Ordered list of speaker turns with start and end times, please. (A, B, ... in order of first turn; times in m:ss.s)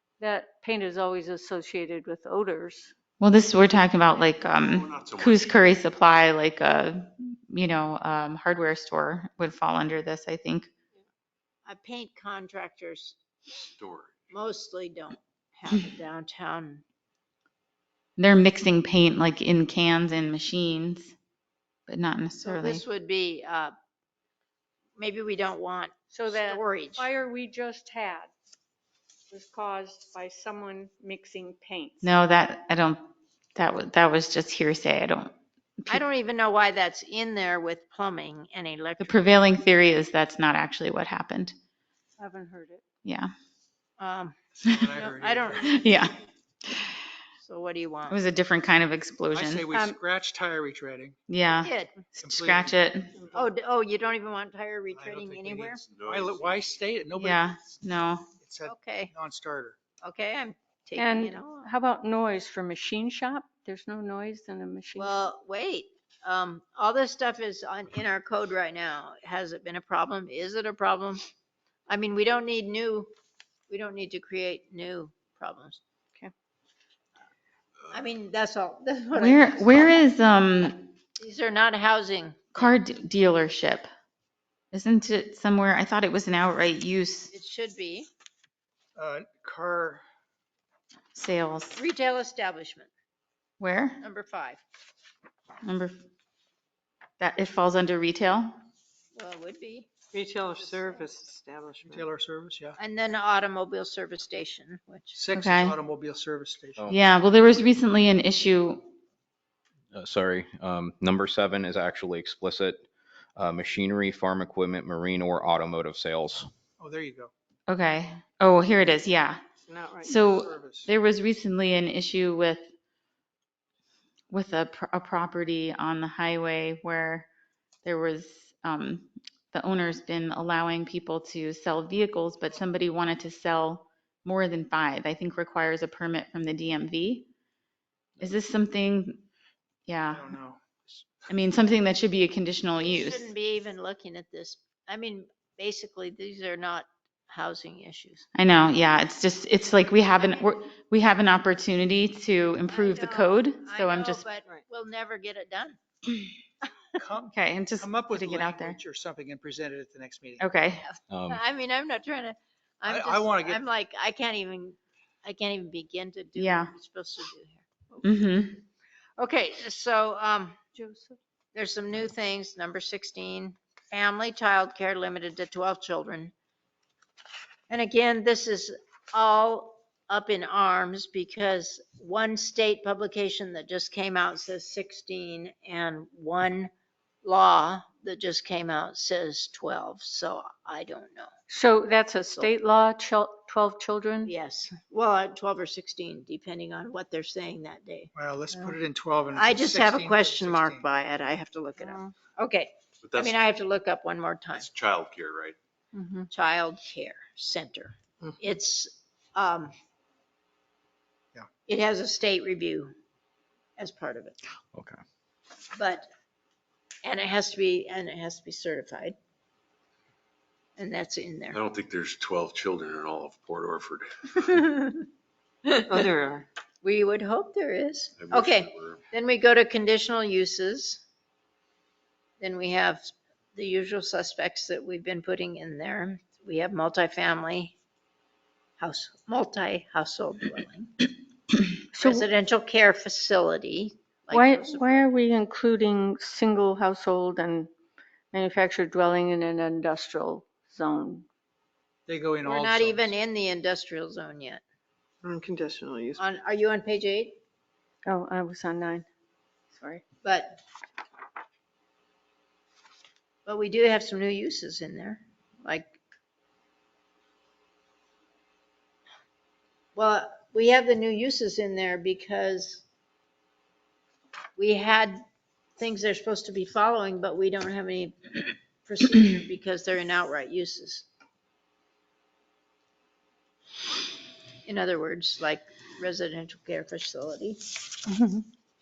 0:00.2-0:02.9 A
0:03.2-0:10.7 B
0:04.6-0:05.6 C
0:11.7-0:13.2 D
0:13.8-0:14.3 C
0:14.3-0:16.8 D
0:18.2-0:21.1 B
0:21.9-0:22.8 B
0:22.4-0:23.7 D
0:25.0-0:27.1 D
0:26.1-0:28.3 A
0:29.3-0:32.2 A
0:32.0-0:33.0 B
0:33.6-0:35.3 B
0:35.9-0:39.2 D
0:39.0-0:41.6 B
0:42.2-0:42.8 A
0:43.0-0:43.3 B
0:44.0-0:44.4 D
0:44.6-0:45.8 E
0:44.9-0:45.8 D
0:45.7-0:46.1 B
0:46.6-0:47.0 B
0:47.4-0:48.2 D
0:48.1-0:49.6 B
0:49.3-0:51.2 E
0:49.7-0:50.0 A
0:51.3-0:53.1 B
0:51.6-0:52.1 D
0:52.2-0:53.5 E
0:53.3-0:55.8 D
0:54.9-0:57.5 E
0:55.8-0:56.8 C
0:57.2-0:58.3 B
0:58.4-0:59.8 E
0:58.6-0:59.1 D
1:00.0-1:01.7 D
1:01.0-1:05.2 A
1:05.0-1:11.2 D
1:11.9-1:13.1 D
1:13.7-1:15.8 D
1:17.9-1:20.0 D
1:19.1-1:20.8 B
1:21.2-1:22.7 D
1:22.6-1:23.9 B
1:24.7-1:27.3 B
1:27.3-1:28.1 D
1:29.0-1:30.0 E
1:31.2-1:31.8 B
1:31.8-1:32.9 D
1:33.6-1:34.0 B
1:34.0-1:34.6 D
1:35.6-1:36.0 B
1:37.2-1:38.6 B
1:39.1-1:39.9 D
1:40.1-1:42.0 F
1:40.6-1:41.0 D
1:41.9-1:42.8 E
1:42.8-1:45.2 D
1:45.1-1:46.9 E
1:45.3-1:45.8 B
1:46.9-1:48.9 B
1:49.9-1:52.8 G
1:53.4-1:56.5 G
1:56.8-1:57.3 E
1:57.7-1:59.4 B
1:59.7-2:00.2 F
2:00.0-2:02.7 B
2:00.3-2:00.9 E
2:04.3-2:07.3 B
2:07.8-2:17.3 B
2:18.2-2:19.2 B
2:19.9-2:20.3 B
2:20.1-2:20.8 E
2:21.3-2:23.3 B
2:22.8-2:28.2 D
2:28.4-2:34.3 B
2:30.2-2:30.5 D
2:32.7-2:36.7 D
2:37.0-2:40.4 E
2:37.3-2:38.8 B
2:40.4-2:40.9 B
2:40.8-2:48.0 D
2:41.1-2:41.4 G
2:42.8-2:43.6 E
2:46.4-2:46.7 B
2:48.0-2:48.6 B
2:49.2-2:50.6 D
2:50.8-2:51.2 A
2:51.6-2:56.3 D
2:57.7-3:06.7 D
3:07.2-3:11.3 D
3:11.5-3:14.3 A
3:14.2-3:18.7 D
3:18.2-3:20.9 E
3:19.3-3:24.7 D
3:21.8-3:22.1 A
3:23.0-3:23.5 C
3:24.6-3:25.6 C
3:25.9-3:26.3 A
3:26.3-3:29.7 D
3:31.7-3:32.9 D
3:33.8-3:34.4 D
3:34.7-3:35.0 G
3:35.7-3:36.1 D
3:37.0-3:39.2 D
3:40.8-3:41.6 D
3:41.5-3:44.6 C
3:44.4-3:45.1 D
3:45.9-3:46.4 F
3:46.8-3:51.0 D
3:48.2-3:49.0 C
3:52.4-3:57.8 D
3:58.8-4:00.9 D
4:02.0-4:02.3 A
4:02.0-4:05.1 D
4:04.3-4:07.7 A
4:08.3-4:11.3 A
4:12.1-4:13.1 E
4:12.4-4:14.6 D
4:15.2-4:16.2 F
4:16.2-4:17.4 D
4:18.1-4:19.1 A
4:19.7-4:20.0 A
4:20.2-4:20.6 D
4:23.5-4:26.0 D
4:30.0-4:32.8 D
4:34.6-4:35.2 D
4:35.8-4:38.3 D
4:38.8-4:41.1 D
4:44.7-4:47.6 D
4:48.1-4:48.4 A